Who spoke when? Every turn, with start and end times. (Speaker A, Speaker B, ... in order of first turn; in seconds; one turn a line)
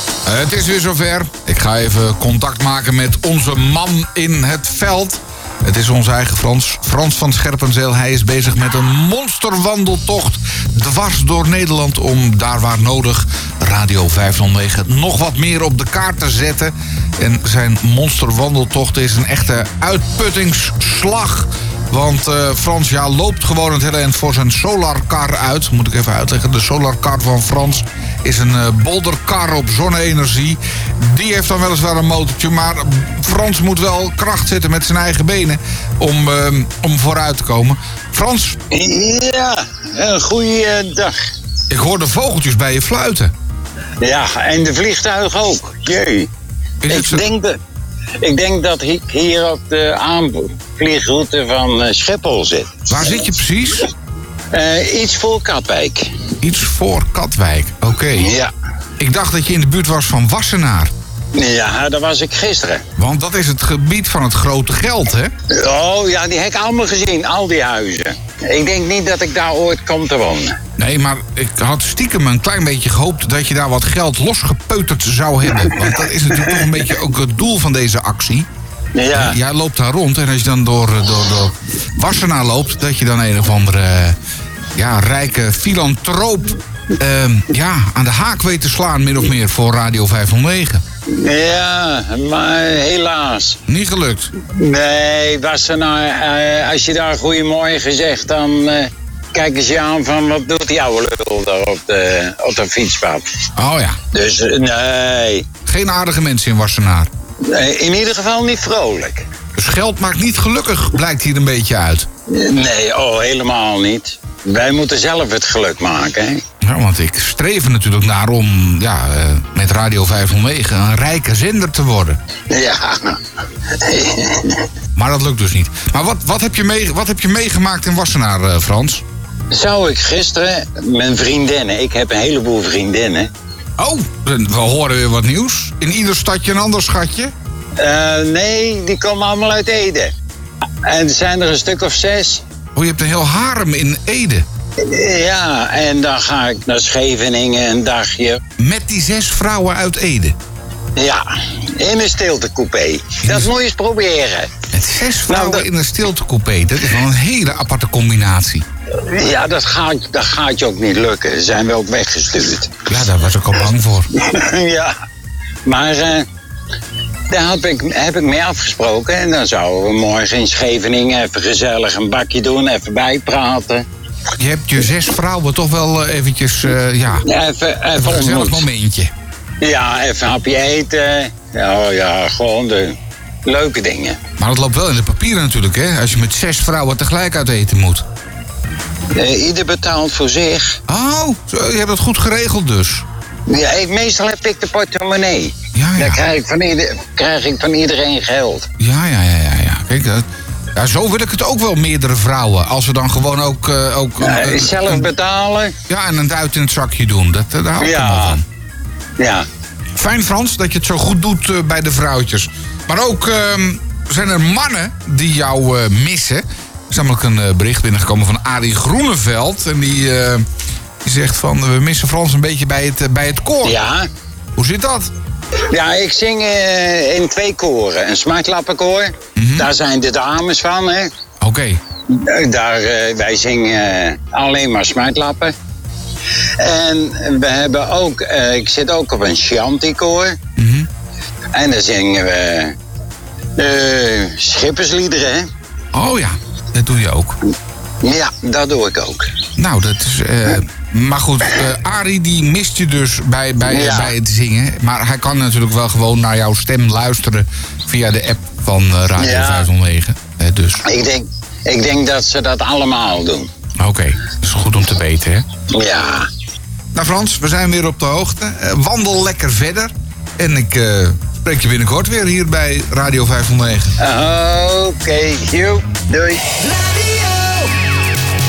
Speaker A: 0.2-38.6
Speaker B: 38.7-41.2
Speaker A: 41.7-43.3
Speaker B: 44.0-46.3
Speaker A: 46.8-47.2
Speaker B: 46.9-47.6
Speaker B: 48.2-53.1
Speaker A: 52.9-53.9
Speaker B: 54.5-56.1
Speaker A: 56.4-58.3
Speaker B: 58.1-58.5
Speaker A: 59.0-60.9
Speaker B: 61.3-62.8
Speaker A: 63.0-65.3
Speaker B: 65.5-70.6
Speaker A: 70.8-78.5
Speaker B: 75.6-76.7
Speaker B: 79.0-79.4
Speaker A: 79.1-84.2
Speaker A: 84.8-90.8
Speaker B: 91.1-93.6
Speaker A: 93.7-94.3
Speaker B: 94.4-103.4
Speaker A: 103.6-104.0
Speaker B: 104.1-105.5
Speaker A: 105.7-107.1
Speaker B: 107.5-109.3
Speaker A: 109.5-112.1
Speaker B: 112.3-116.4
Speaker A: 116.6-122.2
Speaker B: 122.5-124.7
Speaker A: 125.0-129.0
Speaker B: 129.5-133.3
Speaker A: 133.8-137.3
Speaker B: 137.8-140.1
Speaker B: 140.8-142.4
Speaker A: 142.8-144.4
Speaker B: 144.8-148.4
Speaker A: 148.6-150.3
Speaker B: 151.0-154.6
Speaker A: 153.2-153.5
Speaker A: 154.7-158.7
Speaker B: 155.3-155.7
Speaker B: 159.0-162.7
Speaker A: 162.9-164.1
Speaker B: 164.1-165.0
Speaker B: 165.7-166.3
Speaker B: 167.3-173.9
Speaker A: 174.4-177.3
Speaker B: 177.2-178.7
Speaker A: 177.9-179.1
Speaker B: 179.6-184.2
Speaker A: 184.4-188.1
Speaker B: 189.1-190.8
Speaker A: 190.9-193.1
Speaker B: 193.5-198.7
Speaker A: 195.7-196.2
Speaker A: 198.8-205.1
Speaker B: 204.2-205.7
Speaker A: 205.9-208.4
Speaker B: 207.8-208.4
Speaker B: 209.2-209.5
Speaker A: 210.0-220.4
Speaker A: 221.0-223.8
Speaker B: 223.6-224.1
Speaker A: 224.6-225.1
Speaker B: 225.7-231.1
Speaker A: 229.4-229.7
Speaker A: 231.4-231.8
Speaker B: 232.1-235.6
Speaker B: 236.6-240.4
Speaker A: 240.6-240.9
Speaker B: 241.5-242.8
Speaker B: 243.6-245.5
Speaker A: 245.9-247.4
Speaker B: 248.0-249.3
Speaker A: 249.6-260.9
Speaker B: 253.6-254.2
Speaker B: 259.2-259.7
Speaker B: 260.9-263.5
Speaker A: 263.8-265.4
Speaker B: 265.7-266.3
Speaker A: 266.9-273.9
Speaker B: 274.0-277.4